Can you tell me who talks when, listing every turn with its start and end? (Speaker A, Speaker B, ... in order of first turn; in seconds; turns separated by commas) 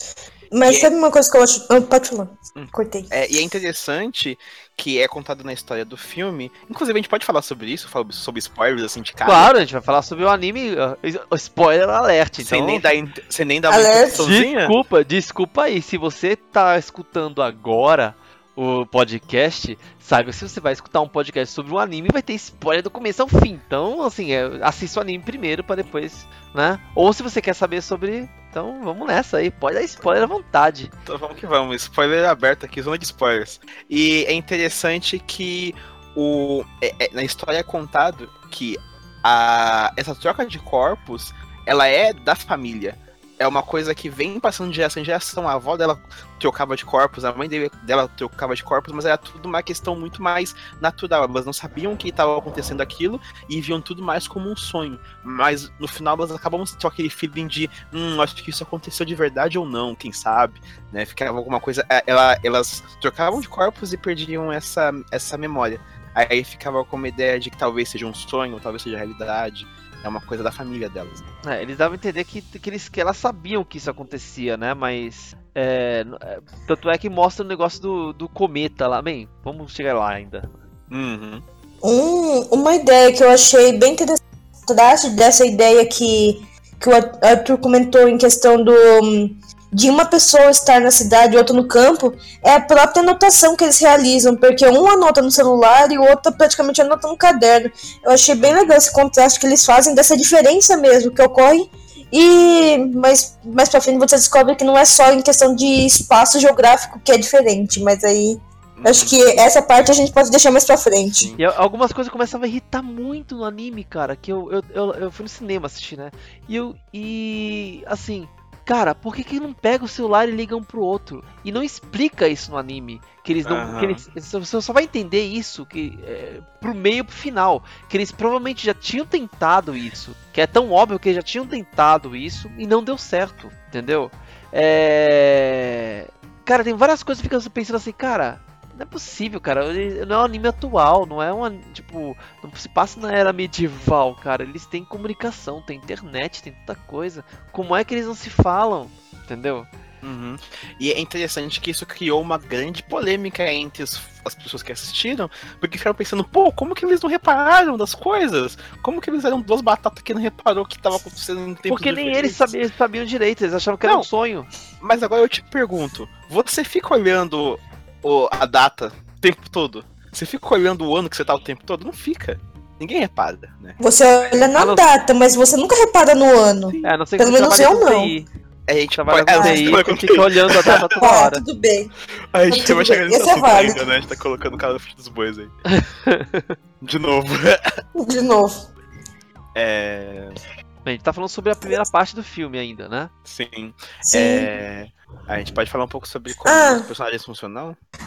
Speaker A: 0.5-3.2, Speaker B: 0.6-0.9, Speaker B: 2.6-9.5, Speaker C: 9.2-12.9, Speaker B: 12.4-14.8, Speaker A: 13.7-14.2, Speaker C: 14.2-30.9, Speaker B: 31.1-71.2, Speaker C: 71.4-80.6, Speaker B: 80.9-81.4, Speaker A: 81.8-111.3, Speaker B: 108.8-109.2, Speaker B: 111.1-111.4, Speaker C: 111.4-149.7, Speaker B: 123.4-124.0, Speaker B: 150.0-162.5, Speaker C: 161.7-164.5, Speaker B: 163.8-164.1, Speaker B: 164.8-173.8, Speaker A: 173.8-178.1, Speaker C: 174.6-174.9, Speaker C: 176.8-178.3, Speaker B: 178.7-180.8, Speaker C: 178.9-181.4, Speaker A: 179.3-179.8, Speaker A: 180.7-181.9, Speaker B: 182.3-185.6, Speaker A: 182.5-183.8, Speaker C: 185.7-186.6, Speaker B: 186.8-187.6, Speaker A: 187.9-188.7, Speaker B: 189.6-190.4, Speaker C: 190.8-193.1, Speaker B: 193.2-197.8, Speaker A: 194.1-194.5, Speaker A: 196.4-196.9